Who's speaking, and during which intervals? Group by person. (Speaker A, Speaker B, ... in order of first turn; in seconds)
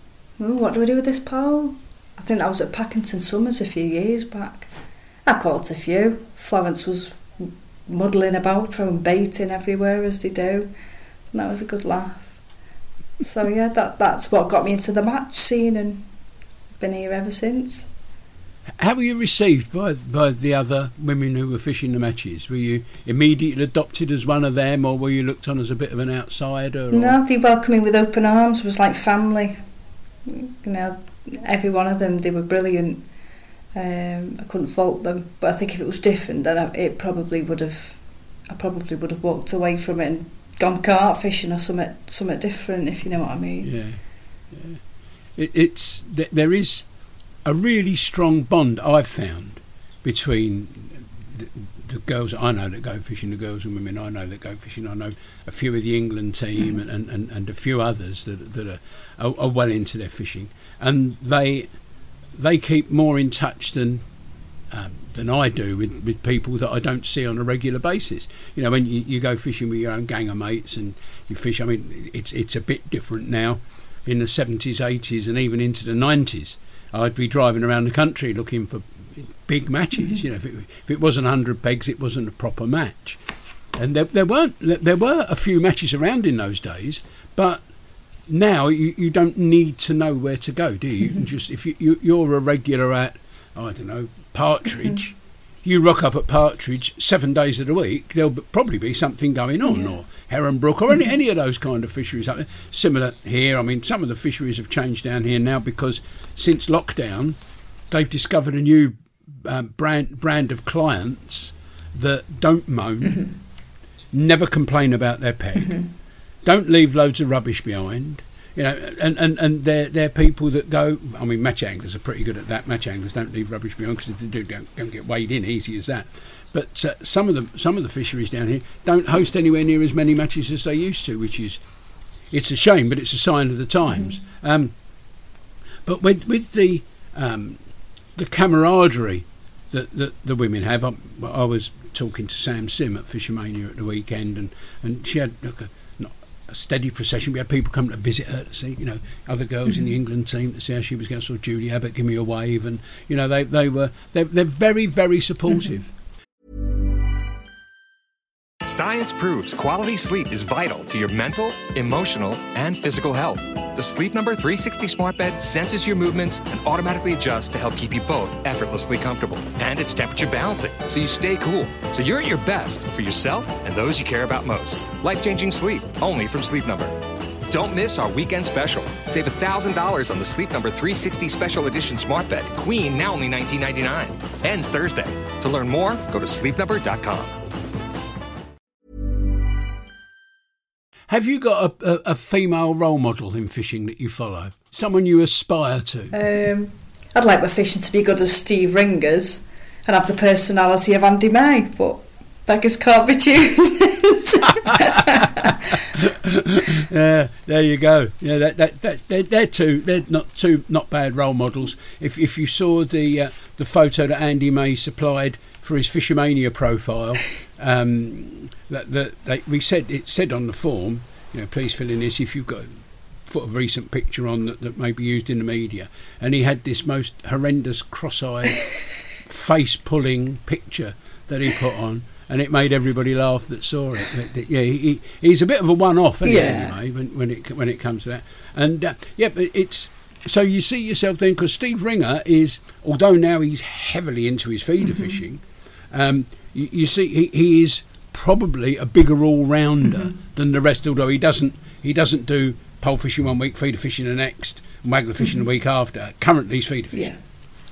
Speaker A: 0.4-4.7, 5.2-10.7, 11.3-12.3, 13.2-16.1, 16.8-17.9, 26.9-29.6, 30.2-33.0, 33.7-43.7, 99.7-99.9, 113.0-113.3, 115.6-115.9, 196.1-205.6, 236.2-236.8, 256.9-257.2
Speaker B: 18.7-27.2, 43.6-44.0, 44.5-44.8, 45.4-46.9, 47.4-61.7, 62.3-64.0, 64.7-83.2, 83.7-87.6, 88.3-107.4, 107.9-113.3, 114.1-115.8, 116.4-131.6, 132.3-134.7, 135.8-137.6, 138.1-155.9, 191.1-196.1, 205.4-228.7, 229.2-257.1
Speaker C: 158.6-177.0, 177.5-187.4